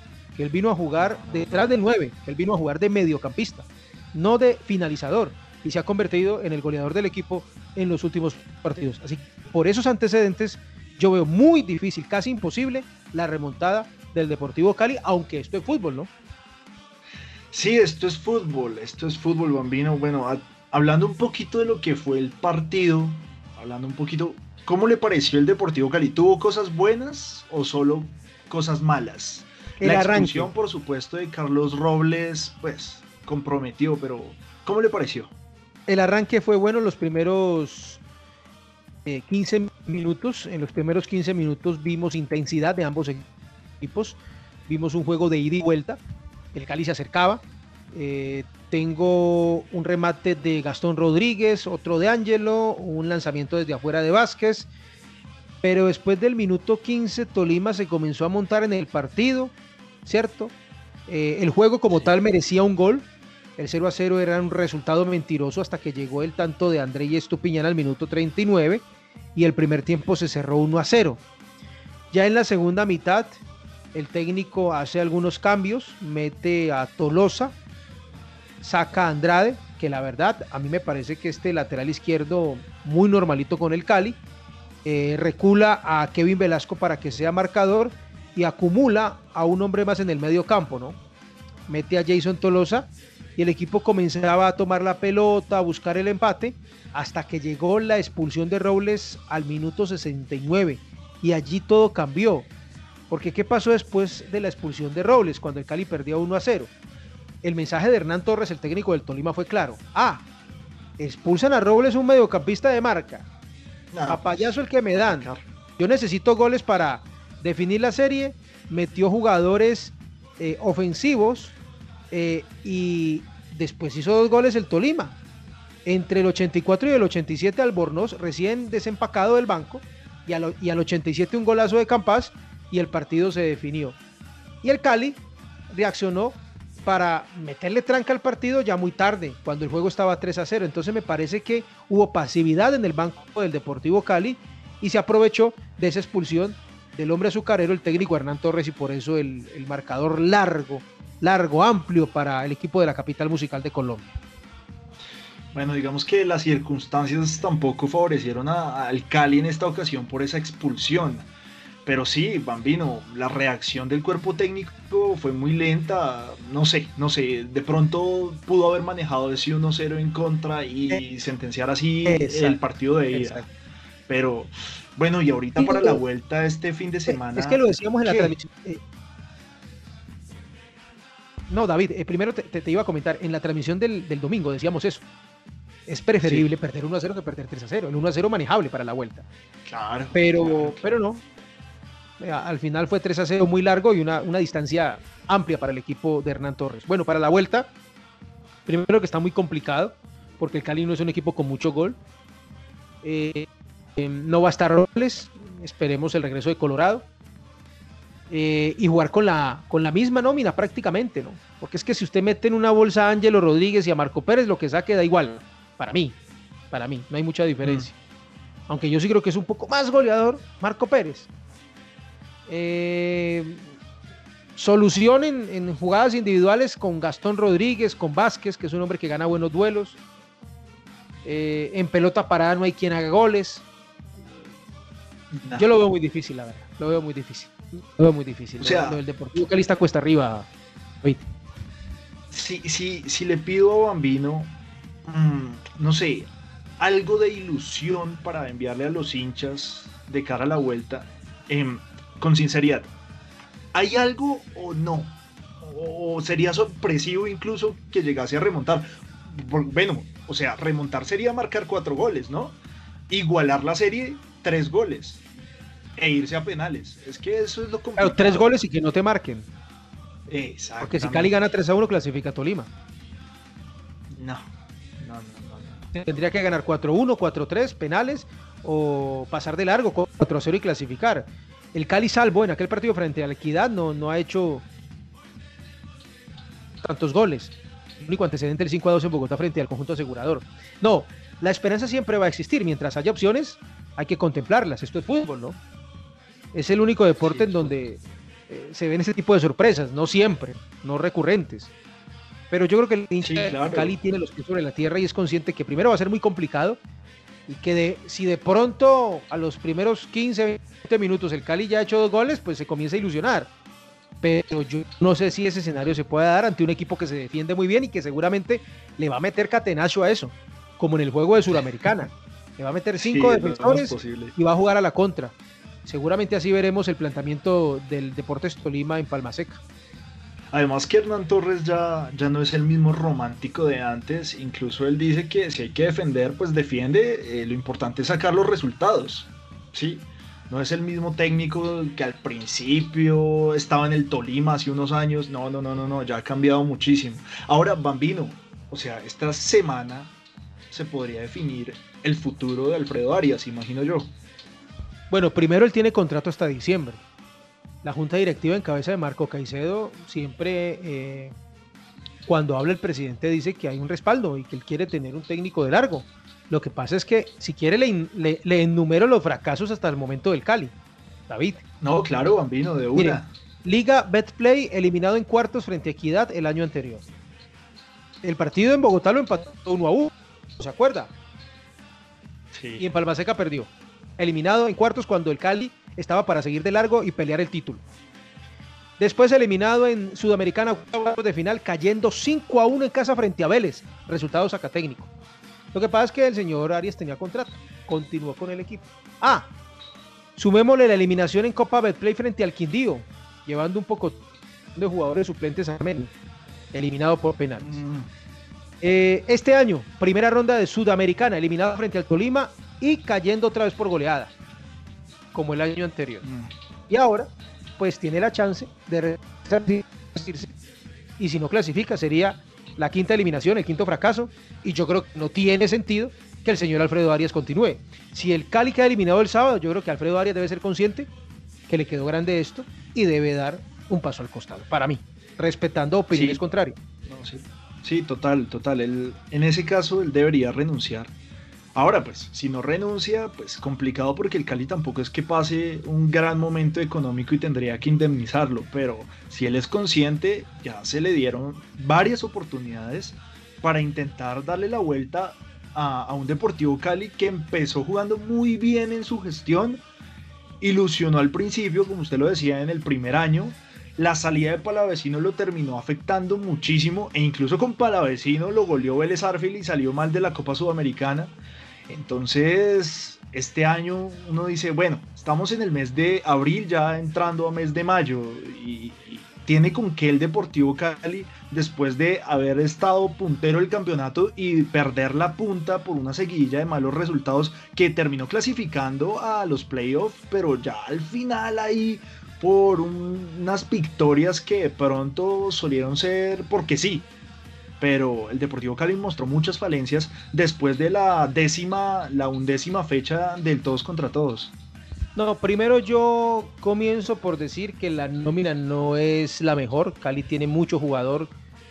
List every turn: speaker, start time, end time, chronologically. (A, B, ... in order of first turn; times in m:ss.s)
0:00.3-0:16.1 A
0:01.0-0:01.8 B
0:17.5-0:35.3 B
0:29.8-0:30.5 A
0:35.9-0:38.0 A
0:39.0-0:43.3 A
0:43.8-0:46.0 A
0:46.5-0:54.7 A
0:55.6-0:59.5 A
1:00.0-1:00.5 A
1:01.1-1:11.2 A
1:12.1-1:13.4 A
1:13.9-1:17.6 A
1:18.6-1:24.2 A
1:24.8-1:31.0 A
1:31.7-1:42.5 A
1:43.1-1:46.7 A
1:47.4-1:50.2 A
1:51.0-1:53.3 A
1:53.9-1:55.4 B
1:54.1-2:01.5 A
2:02.1-2:05.2 A
2:05.8-2:14.0 A
2:14.6-2:34.2 A
2:35.5-2:41.3 B
2:41.8-2:53.5 B
2:52.0-2:53.5 A
2:54.1-2:58.3 B
2:55.6-2:56.0 A
2:57.1-2:58.8 A
3:01.5-3:05.0 A
3:05.9-3:09.2 A
3:06.2-3:06.5 B
3:09.7-3:10.9 B
3:10.1-3:11.2 A
3:12.2-3:17.7 A
3:18.6-3:22.0 A
3:23.0-3:27.0 A
3:28.3-3:36.2 A
3:36.7-3:37.9 A
3:37.6-3:37.9 B
3:38.7-3:41.3 A
3:42.5-3:43.6 A
3:44.6-3:50.0 A
3:51.2-3:53.6 A
3:55.3-3:55.7 B
3:55.5-4:00.5 A
3:58.6-3:59.0 B
4:01.0-4:01.3 A
4:02.3-4:12.9 B
4:13.7-4:25.2 B
4:26.0-4:28.5 B
4:28.0-4:29.5 A
4:30.3-4:31.3 B
4:30.8-4:32.7 A
4:34.1-4:34.4 B
4:35.0-4:35.8 B
4:35.9-4:44.6 A
4:46.8-4:55.6 A
4:56.5-5:01.7 A
4:57.2-4:57.7 B
5:02.5-5:06.8 A
5:03.2-5:04.0 B
5:07.5-5:13.5 A
5:14.2-5:29.6 A
5:23.0-5:24.3 B
5:30.5-5:50.1 B
5:50.7-5:54.1 B
5:55.1-5:57.0 A
5:57.8-6:01.3 A
6:02.2-6:10.7 A
6:11.3-6:11.6 A
6:11.8-6:13.3 B
6:12.9-6:17.0 A
6:18.2-6:21.1 A
6:22.5-6:22.8 B
6:22.8-6:27.8 A
6:29.0-6:35.1 A
6:35.7-6:39.5 A
6:40.4-6:44.2 A
6:44.7-6:46.1 A
6:46.7-6:47.8 A
6:47.6-6:48.1 B
6:48.8-6:54.3 A
6:55.3-6:56.2 A
6:56.2-6:56.5 B
6:56.9-7:00.5 A
7:01.2-7:11.1 A
7:11.7-7:16.8 A
7:16.1-7:16.4 B
7:17.1-7:21.1 B
7:21.7-7:39.8 B
7:40.6-7:51.4 B
7:51.9-8:17.1 B
8:17.8-8:24.5 B
8:25.1-8:31.3 A